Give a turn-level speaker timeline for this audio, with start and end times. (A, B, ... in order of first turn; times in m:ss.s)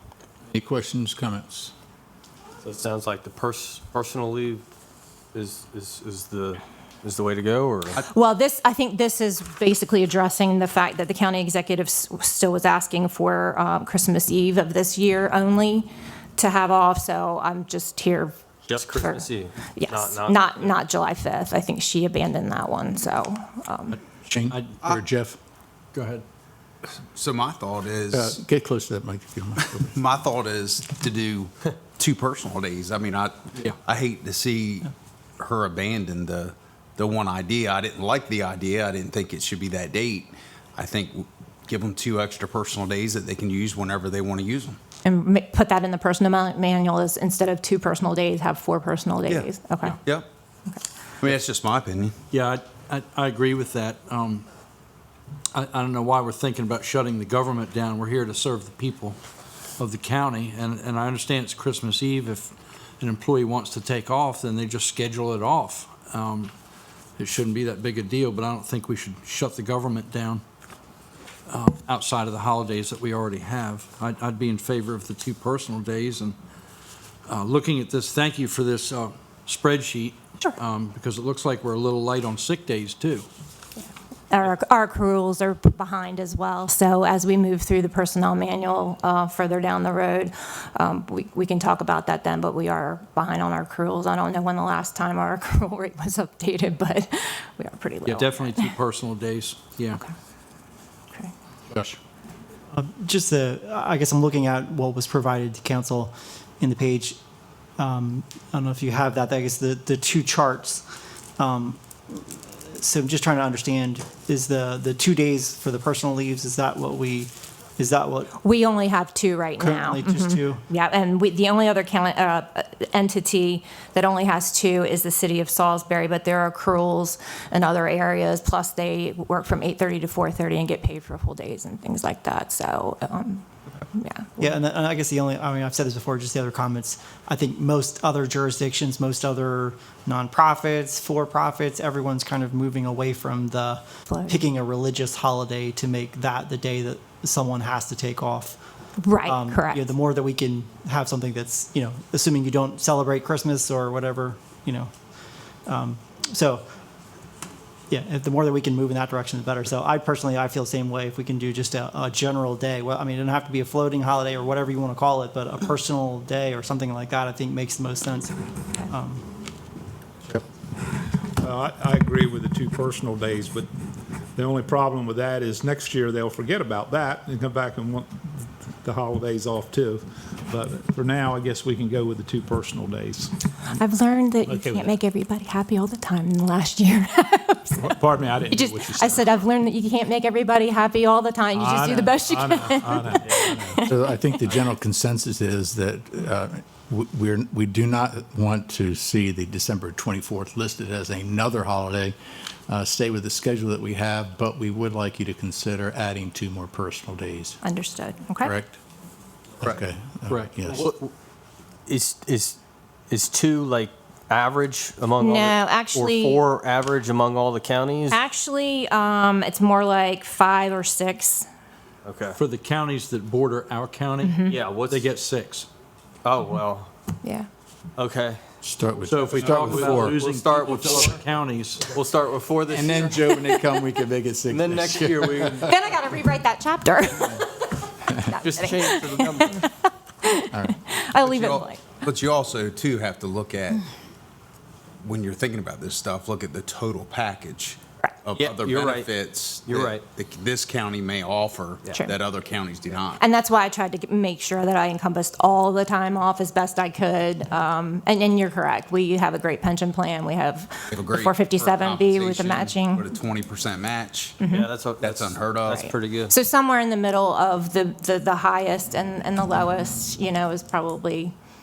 0:00.5-0:01.7 A
0:02.6-0:04.6 B
0:05.3-0:08.0 B
0:08.1-0:24.0 C
0:18.7-0:20.5 B
0:24.3-0:25.4 A
0:24.5-0:24.9 D
0:25.9-0:26.2 D
0:27.1-0:28.4 E
0:28.1-0:30.0 A
0:29.8-0:44.8 E
0:45.0-0:50.0 C
0:51.2-0:52.1 E
0:52.3-0:54.4 D
0:55.5-0:59.2 D
0:59.8-1:06.5 D
1:07.2-1:10.4 D
1:11.5-1:16.4 D
1:17.3-1:23.3 D
1:24.3-1:38.7 C
1:38.0-1:40.0 D
1:42.7-1:47.2 F
1:47.8-1:50.9 F
1:51.4-1:58.4 F
1:58.4-2:14.5 C
1:59.6-2:00.6 F
2:14.4-2:28.6 F
2:24.1-2:24.4 C
2:29.0-2:29.9 C
2:29.2-2:34.9 F
2:35.7-2:36.6 F
2:37.9-2:49.2 F
2:51.4-2:53.7 G
2:54.4-3:03.3 G
3:03.7-3:08.0 C
3:04.5-3:05.0 G
3:07.7-3:09.3 G
3:08.5-3:14.0 C
3:11.5-3:13.8 G
3:13.8-3:22.2 A
3:22.7-3:27.6 A
3:27.6-3:28.6 C
3:28.4-3:28.8 A
3:29.6-3:30.9 A
3:30.7-3:31.1 B
3:31.9-3:38.2 B
3:35.2-3:36.4 C
3:38.1-3:41.5 C
3:42.0-3:42.4 B
3:42.3-3:45.7 D
3:44.2-3:44.6 C
3:44.5-3:45.0 B
3:46.2-3:46.9 B
3:48.0-3:48.4 B
3:48.6-3:50.2 A
3:49.0-3:52.0 D
3:49.6-3:51.2 B
3:51.9-3:53.4 B
3:52.7-3:55.7 A
3:54.5-3:55.7 B
3:55.6-3:57.6 C
3:58.1-4:02.0 C
3:58.4-3:59.7 B
4:00.5-4:00.8 A
4:01.2-4:03.9 E
4:05.0-4:13.2 E
4:08.4-4:09.1 B
4:09.7-4:10.0 B
4:13.2-4:23.1 C
4:20.9-4:24.4 E
4:24.4-4:24.7 C
4:24.5-4:26.3 B
4:25.0-4:26.0 E
4:25.7-4:31.3 C